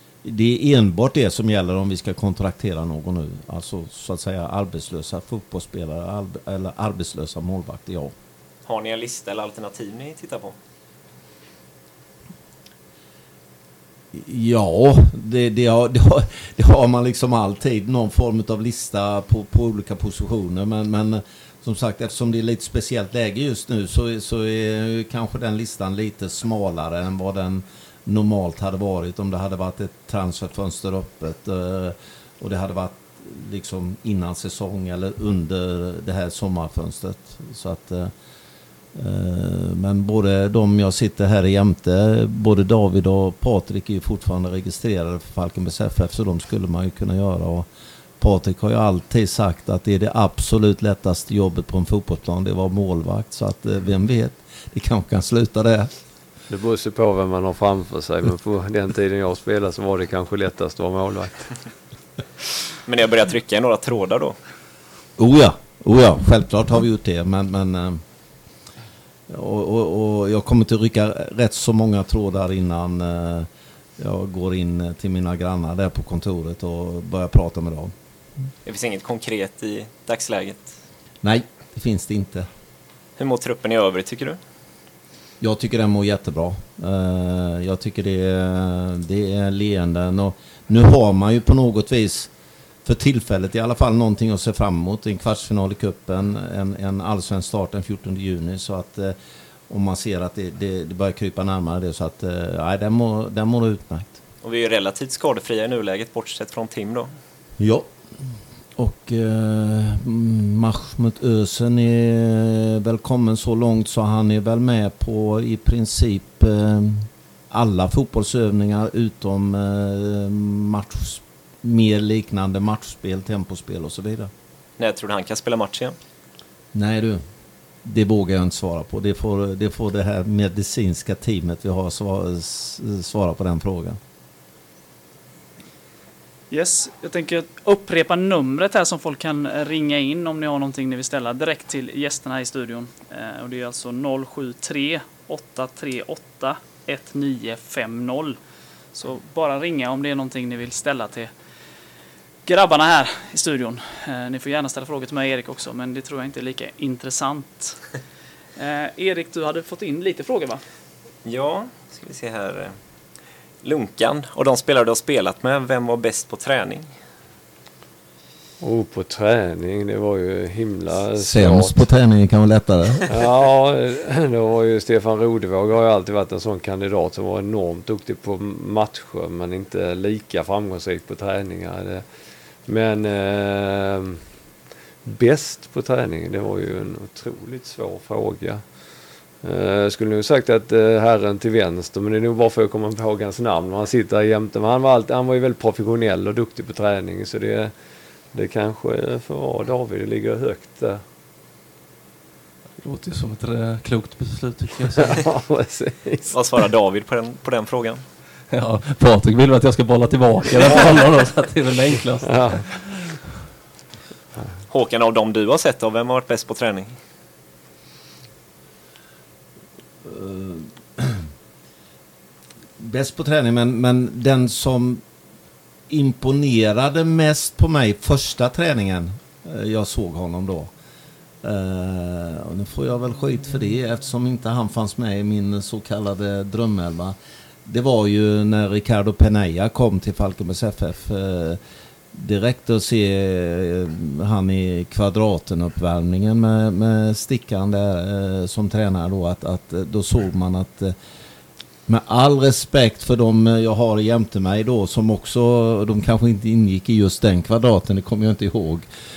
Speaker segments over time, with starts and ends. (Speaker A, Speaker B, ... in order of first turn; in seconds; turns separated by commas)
Speaker A: 0.2-8.1, Speaker B: 8.7-10.6, Speaker A: 14.1-38.1, Speaker A: 38.9-47.7, Speaker A: 48.2-55.9, Speaker C: 56.5-61.6, Speaker B: 62.9-64.4, Speaker A: 65.2-68.0, Speaker A: 69.3-78.0, Speaker B: 78.7-80.7, Speaker A: 81.2-82.5, Speaker B: 83.2-84.4, Speaker A: 85.4-92.3, Speaker A: 92.8-99.2, Speaker A: 99.7-104.2, Speaker B: 104.4-107.1, Speaker A: 107.6-107.9, Speaker A: 108.8-124.3, Speaker B: 124.8-126.0, Speaker A: 126.7-127.2, Speaker A: 127.8-134.0, Speaker D: 136.5-148.4, Speaker D: 148.9-151.3, Speaker D: 152.4-157.8, Speaker D: 158.6-160.6, Speaker B: 161.2-162.8, Speaker B: 163.6-166.9, Speaker C: 168.6-171.7, Speaker A: 171.2-173.1, Speaker C: 173.1-182.1, Speaker C: 182.6-184.2, Speaker C: 185.1-197.7, Speaker C: 198.3-201.0, Speaker E: 202.8-205.2, Speaker C: 205.0-206.3, Speaker B: 206.3-208.0, Speaker E: 208.5-213.1, Speaker C: 212.3-212.7, Speaker B: 214.7-216.9, Speaker A: 220.0-221.3, Speaker A: 222.8-225.0, Speaker A: 225.9-230.7, Speaker A: 231.4-241.6, Speaker A: 242.1-251.0, Speaker A: 251.9-258.9